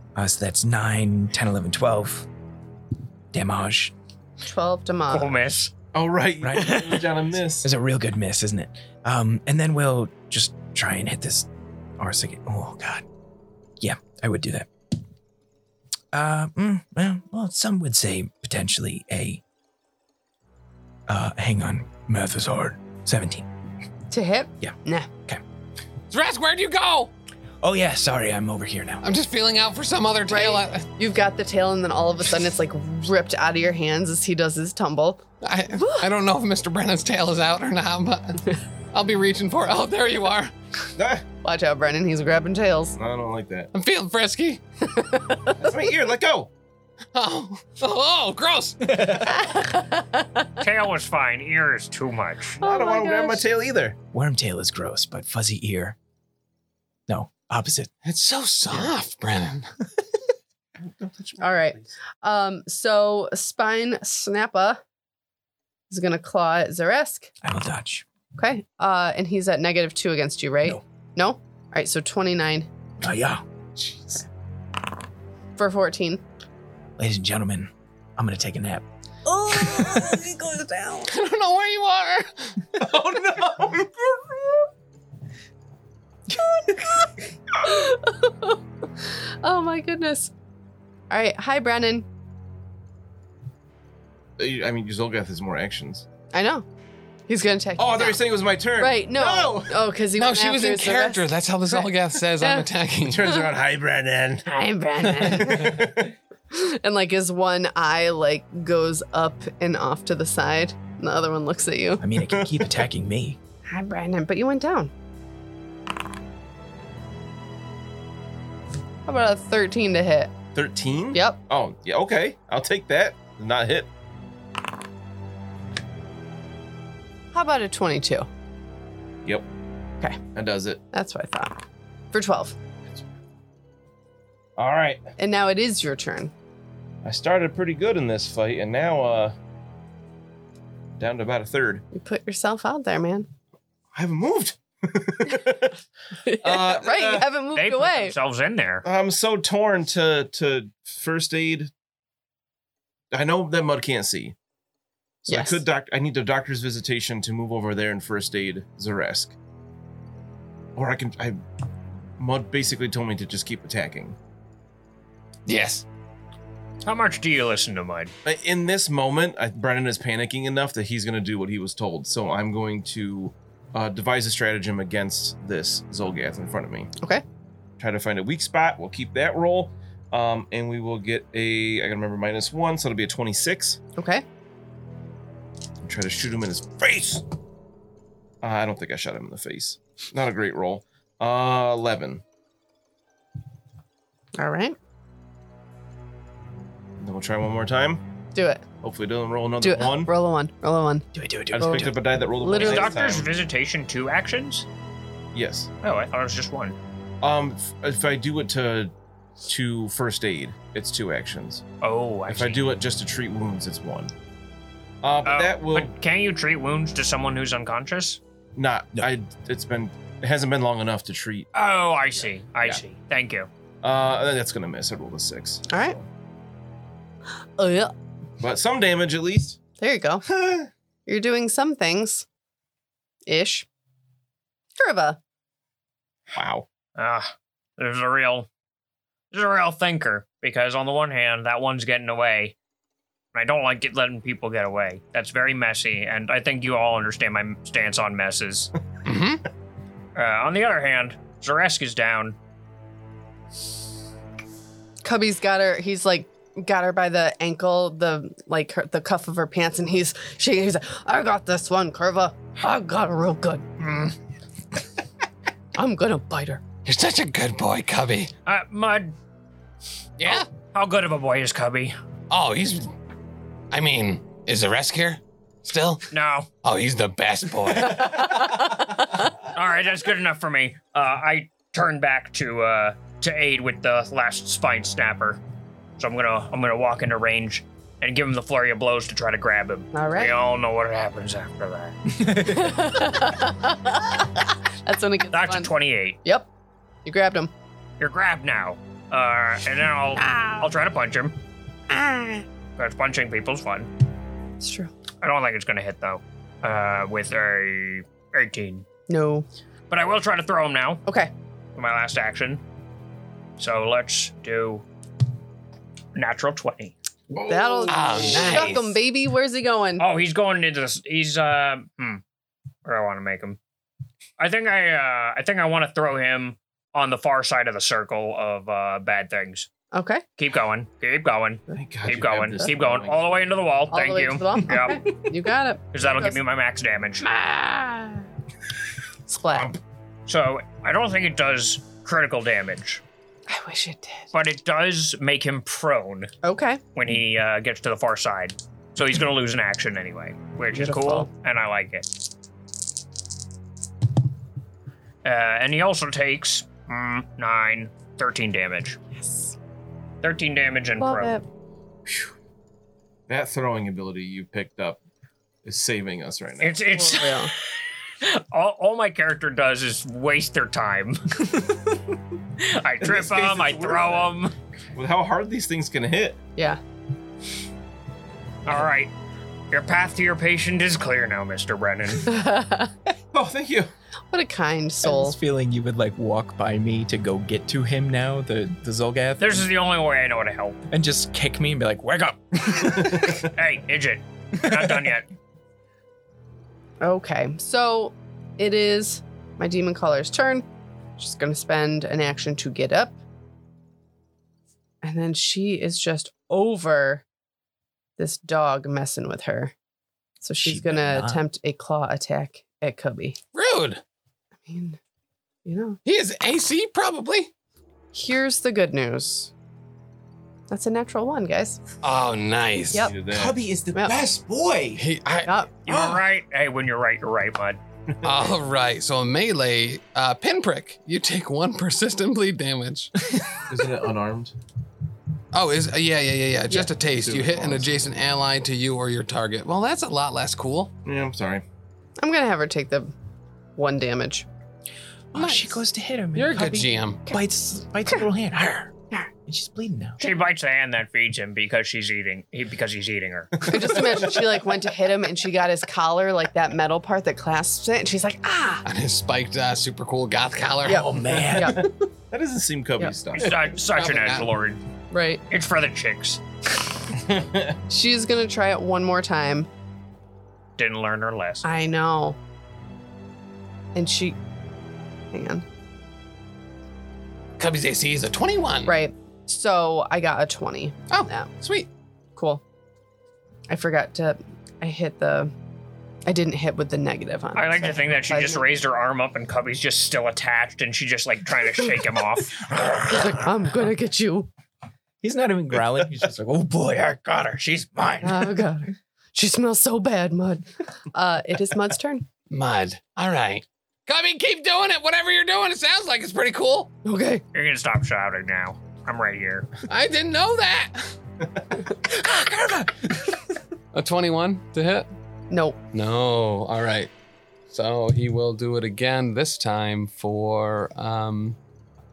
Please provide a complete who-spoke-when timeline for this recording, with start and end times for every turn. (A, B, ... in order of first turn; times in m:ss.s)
0:00.1-0:02.3 A
0:03.3-0:03.9 A
0:04.4-0:05.3 B
0:05.1-0:05.7 C
0:05.9-0:07.7 D
0:06.4-0:06.9 A
0:06.6-0:07.0 C
0:07.6-0:11.5 A
0:12.0-0:13.0 A
0:13.8-0:14.7 A
0:16.1-0:19.4 A
0:21.1-0:23.5 A
0:24.1-0:25.1 B
0:24.6-0:25.4 A
0:26.1-0:27.1 E
0:27.6-0:29.0 A
0:29.0-0:30.9 E
0:30.3-0:35.2 B
0:35.4-0:38.4 E
0:35.8-0:36.1 B
0:38.9-0:40.5 E
0:41.0-0:41.2 D
0:41.4-0:43.0 B
0:43.0-0:43.7 D
0:43.7-0:44.6 E
0:44.9-0:45.7 B
0:45.6-0:46.5 D
0:47.1-0:49.1 E
0:49.0-0:50.2 B
0:50.6-0:52.6 C
0:52.6-0:54.0 D
0:52.6-0:53.4 B
0:54.1-0:56.0 A
0:57.1-0:57.9 A
0:58.0-0:59.7 E
1:00.8-1:01.7 D
1:01.4-1:04.8 B
1:05.9-1:07.3 B
1:07.4-1:08.0 A
1:08.4-1:12.7 B
1:13.0-1:13.4 A
1:15.6-1:16.2 B
1:17.0-1:18.8 A
1:19.2-1:21.1 B
1:21.0-1:22.6 E
1:22.8-1:24.6 D
1:26.6-1:27.1 B
1:27.6-1:30.3 B
1:31.1-1:32.1 B
1:34.4-1:36.1 D
1:36.3-1:36.6 B
1:37.3-1:38.2 B
1:37.8-1:39.8 D
1:38.8-1:41.9 B
1:40.1-1:43.3 E
1:42.4-1:42.7 B
1:43.0-1:44.4 D
1:44.4-1:52.0 B
1:45.2-1:46.1 D
1:52.0-1:53.4 A
1:52.3-1:52.6 D
1:53.6-1:54.9 B
1:59.0-2:00.4 B
2:00.6-2:03.9 D
2:01.1-2:01.4 B
2:07.3-2:08.3 B
2:10.3-2:10.8 D
2:10.9-2:11.6 B
2:12.1-2:12.6 B
2:14.6-2:15.1 D
2:15.2-2:16.3 B
2:17.0-2:19.3 D
2:21.0-2:21.8 D
2:21.9-2:23.3 B
2:23.9-2:25.7 D
2:26.2-2:28.1 B
2:26.4-2:27.3 D
2:27.5-2:28.8 C
2:28.8-2:31.7 D
2:33.1-2:34.3 D
2:35.2-2:39.4 D
2:35.3-2:35.6 B
2:40.8-2:41.4 D
2:42.2-2:44.2 D
2:45.4-2:45.8 E
2:46.8-2:48.1 C
2:48.2-2:56.9 D
2:57.8-3:03.8 D
3:04.0-3:04.2 B
3:05.8-3:07.3 D
3:08.4-3:12.2 D
3:14.4-3:14.8 B
3:17.0-3:18.0 D
3:18.3-3:18.6 B
3:18.8-3:20.1 D
3:19.6-3:21.1 B
3:21.1-3:22.0 A
3:21.5-3:23.3 D
3:21.6-3:23.0 B
3:22.6-3:24.6 C
3:25.3-3:25.7 D
3:25.8-3:26.8 C
3:27.2-3:31.6 D
3:31.8-3:32.6 C
3:32.3-3:34.1 D
3:35.0-3:35.9 D
3:35.2-3:38.2 C
3:38.6-3:41.5 D
3:41.5-3:43.5 C
3:42.2-3:42.8 D
3:43.8-3:46.0 D
3:45.7-3:46.0 B
3:47.6-3:47.9 B
3:48.4-3:49.6 D
3:49.8-3:50.2 B
3:50.3-3:50.7 D
3:51.0-3:52.2 B
3:53.2-3:53.7 B
3:54.8-3:55.2 B
3:56.3-3:56.6 D
3:57.0-3:58.5 C
3:59.3-4:02.6 C
4:03.3-4:08.7 C
4:09.0-4:09.4 E
4:10.1-4:12.4 C
4:15.0-4:24.0 B
4:25.8-4:26.6 B
4:26.8-4:28.3 E
4:28.4-4:29.1 C
4:30.2-4:30.5 E
4:30.3-4:32.0 C
4:32.3-4:32.9 E
4:33.7-4:36.0 E
4:36.1-4:36.5 C
4:36.6-4:38.4 E
4:39.5-4:45.4 C
4:46.0-4:52.0 C
4:49.9-4:50.3 B
4:52.2-4:52.9 A
4:52.4-4:55.7 B
4:55.3-4:56.2 C
4:57.0-4:57.5 B
4:58.0-5:01.4 C
5:00.2-5:00.6 B
5:01.9-5:02.4 B
5:02.8-5:03.9 C
5:04.6-5:04.9 B
5:05.2-5:08.9 C
5:09.1-5:09.5 B
5:09.9-5:11.0 C
5:11.0-5:11.3 B
5:11.8-5:12.6 C
5:13.6-5:14.8 C
5:16.1-5:16.9 C
5:17.3-5:18.8 D
5:17.5-5:20.0 B
5:17.9-5:19.0 E
5:20.0-5:22.2 C
5:22.8-5:23.6 C
5:24.4-5:29.7 C
5:29.9-5:30.2 B
5:30.4-5:35.0 C
5:31.7-5:33.5 D
5:33.9-5:36.4 B
5:35.9-5:37.3 C
5:37.3-5:38.2 B
5:39.3-5:39.7 B
5:40.3-5:43.0 C
5:43.5-5:44.3 B
5:44.3-5:46.3 C
5:46.4-5:46.8 B
5:46.9-5:52.1 C
5:50.7-5:51.3 B
5:55.2-5:59.0 C
5:59.1-5:59.6 B
6:00.2-6:01.4 C
6:01.0-6:01.4 B
6:02.0-6:02.3 D
6:03.3-6:05.0 D
6:05.6-6:06.8 D
6:06.6-6:11.5 C
6:06.9-6:07.5 B
6:12.6-6:14.6 C
6:13.0-6:14.4 D
6:14.9-6:16.4 D
6:18.6-6:19.1 C
6:19.7-6:22.3 C
6:22.2-6:22.9 B
6:23.3-6:23.9 D
6:24.3-6:25.4 B
6:25.0-6:29.7 A
6:29.4-6:30.8 C
6:30.9-6:33.4 A
6:33.4-6:35.3 C
6:34.7-6:35.1 A
6:37.0-6:40.6 B
6:41.2-6:43.2 B
6:45.0-6:47.2 B
6:48.2-6:49.7 B
6:50.4-6:53.4 B
6:50.6-6:51.4 A
6:53.5-6:54.0 E
6:54.6-6:55.0 B
6:55.6-6:56.0 B
6:56.0-6:57.5 E
6:58.1-6:59.5 B
7:00.7-7:01.8 B
7:02.0-7:03.1 E
7:03.0-7:03.6 D
7:03.3-7:05.0 A
7:05.0-7:06.2 E
7:05.4-7:05.7 B
7:05.8-7:07.8 C
7:08.2-7:08.6 D
7:08.2-7:13.1 E
7:13.7-7:14.6 D
7:15.5-7:20.9 E
7:17.0-7:18.0 D
7:21.0-7:21.6 D
7:22.2-7:23.1 B
7:23.8-7:24.5 B
7:25.3-7:30.2 A
7:25.3-7:25.8 B
7:26.3-7:27.2 E
7:30.2-7:33.6 C
7:33.6-7:34.5 D
7:33.7-7:38.8 B
7:38.8-7:41.4 E
7:40.8-7:41.9 B
7:40.9-7:41.9 A
7:41.4-7:43.6 D
7:43.3-7:44.8 C
7:43.7-7:44.5 E
7:45.1-7:45.4 B
7:45.5-7:46.4 C
7:47.3-7:47.7 D
7:47.9-7:49.7 B
7:50.8-7:51.6 C
7:51.6-7:52.4 B
7:53.9-7:54.4 B
7:55.3-7:55.6 B
7:57.6-7:59.0 E
7:58.9-8:01.5 B
8:01.1-8:01.9 E
8:02.4-8:02.6 B
8:03.7-8:05.5 B
8:06.2-8:08.7 B
8:07.6-8:12.6 C
8:12.8-8:13.3 A
8:12.9-8:14.5 B
8:15.2-8:18.7 A
8:18.2-8:22.3 B
8:22.5-8:26.9 E
8:27.0-8:27.4 B
8:27.5-8:29.7 C
8:29.9-8:31.1 E
8:32.0-8:33.3 A
8:33.9-8:35.1 E
8:35.5-8:35.8 B
8:35.9-8:37.1 E
8:37.7-8:41.6 E